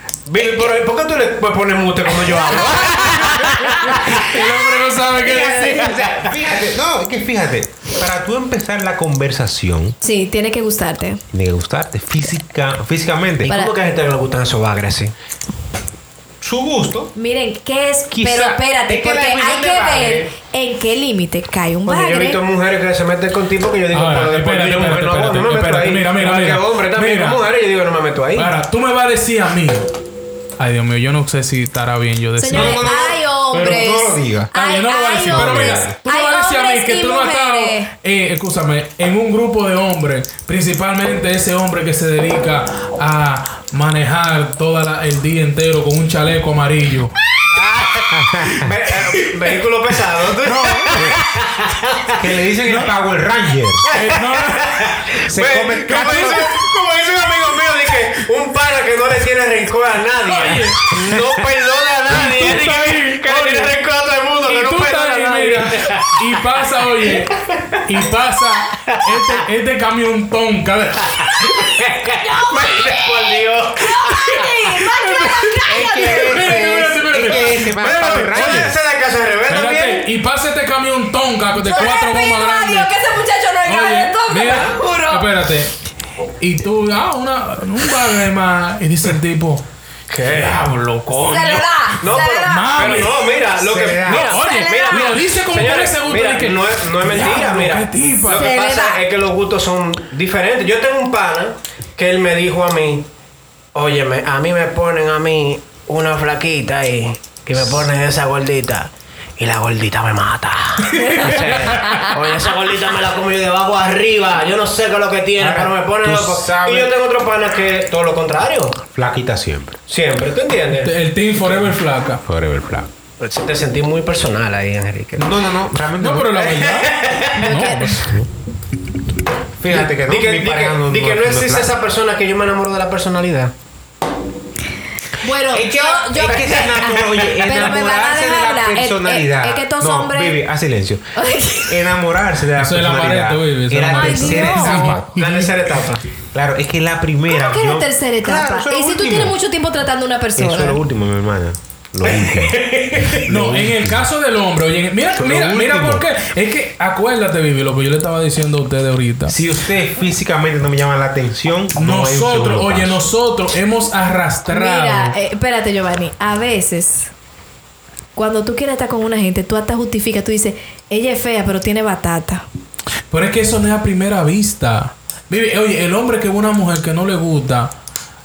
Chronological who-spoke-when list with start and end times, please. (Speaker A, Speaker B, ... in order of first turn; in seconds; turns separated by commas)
Speaker A: 0.2-4.4, Speaker B: 2.6-3.0, Speaker C: 2.8-6.0, Speaker D: 5.2-9.9, Speaker B: 5.3-5.8, Speaker B: 10.0-11.2, Speaker D: 11.3-13.5, Speaker A: 13.4-15.1, Speaker B: 13.4-13.7, Speaker D: 16.4-17.1, Speaker B: 17.1-22.4, Speaker D: 18.1-20.3, Speaker A: 21.9-28.5, Speaker C: 23.9-27.4, Speaker C: 28.3-29.9, Speaker C: 30.6-32.9, Speaker B: 32.4-37.9, Speaker D: 32.5-34.5, Speaker C: 34.5-47.1, Speaker D: 35.3-35.9, Speaker A: 47.5-52.3, Speaker D: 48.1-48.7, Speaker C: 50.4-51.2, Speaker D: 52.2-53.8, Speaker C: 52.6-52.9, Speaker A: 53.8-66.2, Speaker C: 53.9-54.8, Speaker D: 55.3-56.5, Speaker C: 55.9-56.5, Speaker C: 57.4-57.7, Speaker C: 60.2-61.0, Speaker C: 62.1-63.8, Speaker C: 64.4-71.4, Speaker A: 67.4-67.8, Speaker A: 71.2-74.9, Speaker B: 72.2-76.7, Speaker C: 75.2-78.7, Speaker D: 75.7-78.7, Speaker A: 75.7-80.1, Speaker C: 79.5-82.9, Speaker B: 81.5-85.3, Speaker C: 83.6-85.8, Speaker C: 86.4-89.6, Speaker A: 90.1-90.7, Speaker C: 90.3-90.7, Speaker D: 90.4-91.6, Speaker B: 91.2-93.1, Speaker A: 91.6-103.1, Speaker C: 92.5-93.4, Speaker D: 93.6-94.3, Speaker C: 94.0-98.5, Speaker B: 94.3-95.2, Speaker B: 98.3-99.0, Speaker A: 103.7-118.8, Speaker C: 111.0-112.1, Speaker D: 115.4-116.9, Speaker D: 118.9-119.8, Speaker A: 119.9-120.9, Speaker C: 120.8-122.2, Speaker D: 122.2-122.9, Speaker A: 123.2-125.3, Speaker D: 125.2-126.6, Speaker C: 126.0-128.1, Speaker A: 126.5-127.5, Speaker B: 127.3-128.0, Speaker D: 128.0-128.3, Speaker D: 129.6-131.8, Speaker A: 129.7-133.5, Speaker B: 135.2-140.4, Speaker D: 135.5-145.5, Speaker B: 141.1-141.8, Speaker C: 142.6-145.3, Speaker B: 143.9-145.0, Speaker A: 145.1-146.0, Speaker D: 146.3-149.4, Speaker B: 147.3-150.8, Speaker D: 150.4-154.1, Speaker A: 152.2-153.0, Speaker C: 153.1-159.4, Speaker D: 155.1-156.1, Speaker D: 159.3-163.1, Speaker C: 161.8-165.1, Speaker B: 164.5-167.1, Speaker B: 168.2-172.4, Speaker C: 173.1-177.7